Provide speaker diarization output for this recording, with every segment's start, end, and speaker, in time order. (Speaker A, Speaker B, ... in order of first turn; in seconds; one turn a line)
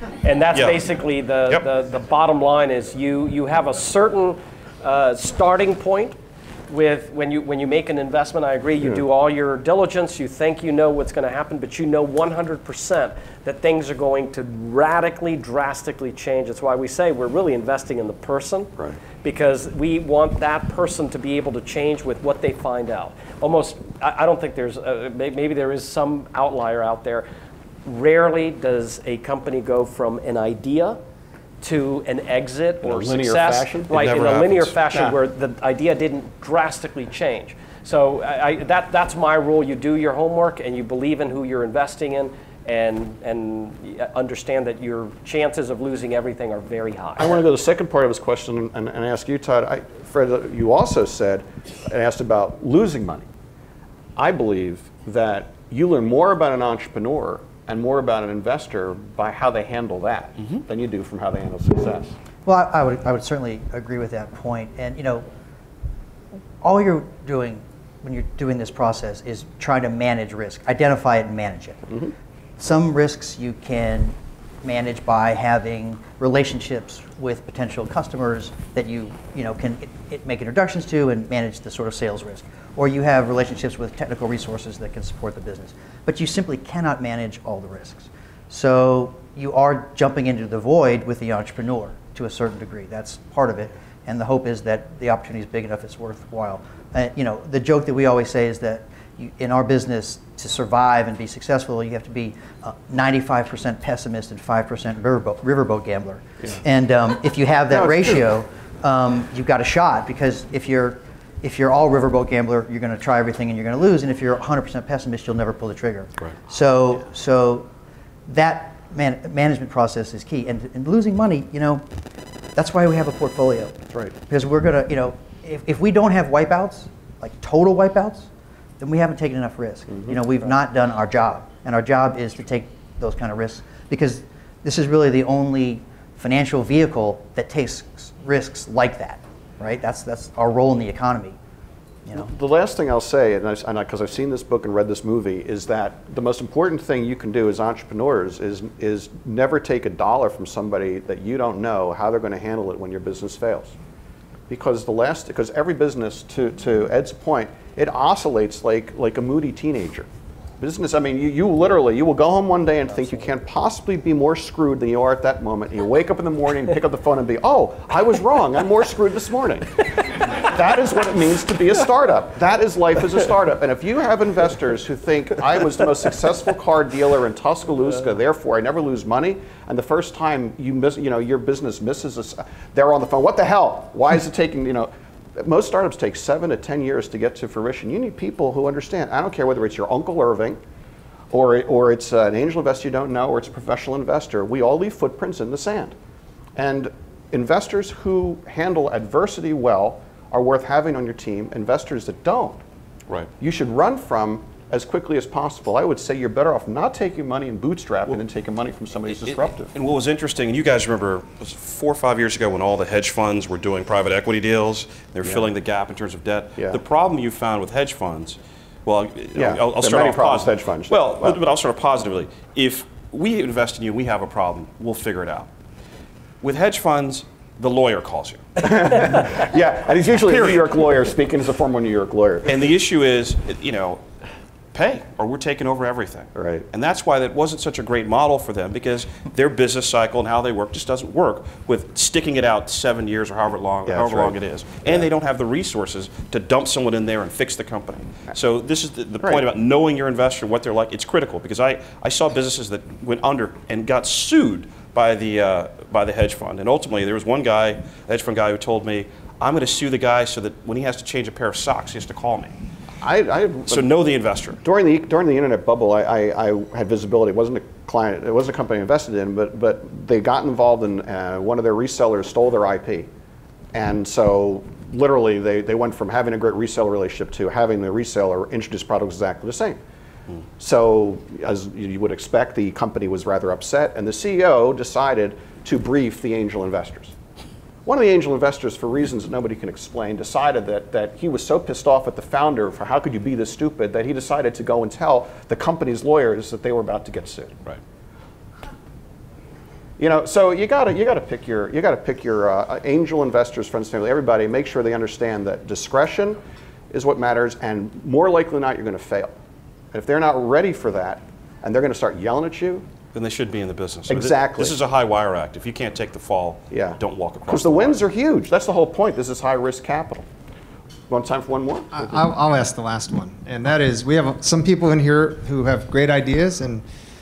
Speaker A: 0.2-6.2
Speaker B: 0.5-0.8
Speaker A: 6.7-18.7
Speaker A: 19.2-27.2
Speaker A: 27.8-31.0
Speaker A: 31.6-47.4
Speaker C: 32.8-34.0
Speaker B: 33.9-34.7
Speaker C: 34.9-35.1
Speaker C: 47.2-53.3
Speaker C: 54.1-62.2
Speaker D: 62.4-65.2
Speaker D: 66.6-71.8
Speaker D: 72.6-117.7
Speaker C: 107.7-108.2
Speaker D: 118.3-121.8
Speaker D: 122.5-128.3
Speaker D: 128.8-141.4
Speaker C: 129.9-130.2
Speaker C: 142.1-153.8
Speaker C: 154.5-160.1
Speaker C: 160.6-190.6
Speaker C: 191.3-195.9
Speaker C: 196.6-202.6
Speaker C: 203.4-209.7
Speaker B: 209.1-225.5
Speaker C: 215.2-215.5
Speaker C: 219.3-221.4
Speaker B: 226.4-229.3
Speaker C: 228.6-232.5
Speaker B: 230.2-230.7
Speaker B: 232.4-234.0
Speaker B: 234.7-262.5
Speaker C: 236.3-236.7
Speaker C: 243.8-244.3
Speaker C: 263.0-264.0
Speaker B: 263.7-264.6
Speaker C: 264.6-273.1
Speaker C: 273.7-279.8
Speaker C: 280.6-287.1
Speaker C: 287.9-297.6
Speaker C: 300.0-306.4
Speaker C: 306.9-309.3
Speaker C: 309.9-312.9
Speaker B: 313.1-318.0
Speaker C: 314.1-314.8
Speaker C: 316.7-320.3
Speaker C: 321.1-322.2
Speaker E: 321.9-326.8